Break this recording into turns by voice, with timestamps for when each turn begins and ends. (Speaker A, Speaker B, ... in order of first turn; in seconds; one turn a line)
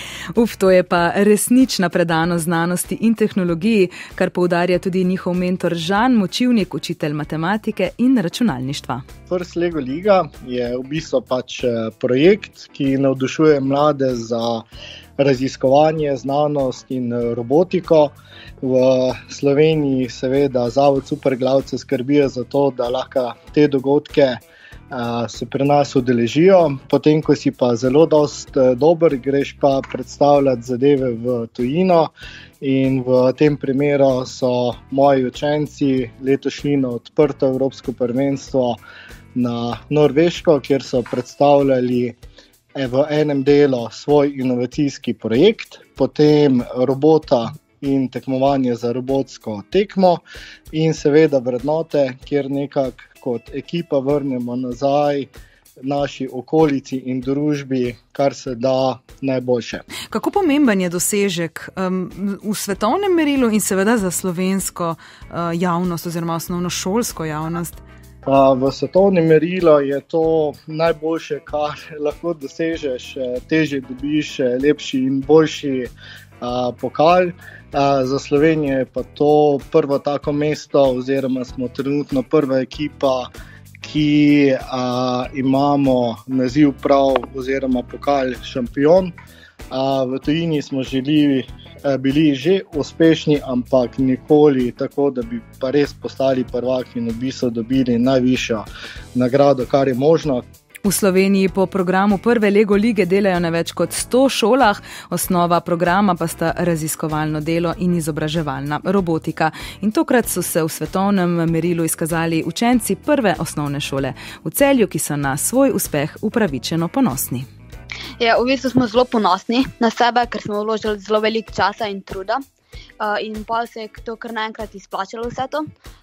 Speaker A: 0.3-9.0
Speaker B: 9.3-14.6
Speaker B: 15.2-38.8
Speaker B: 39.3-42.1
Speaker B: 42.7-55.3
Speaker B: 55.8-59.8
Speaker A: 60.1-67.8
Speaker B: 68.2-83.3
Speaker B: 83.8-89.1
Speaker B: 89.7-100.4
Speaker A: 100.8-117.5
Speaker C: 118.2-122.4
Speaker C: 123.0-125.7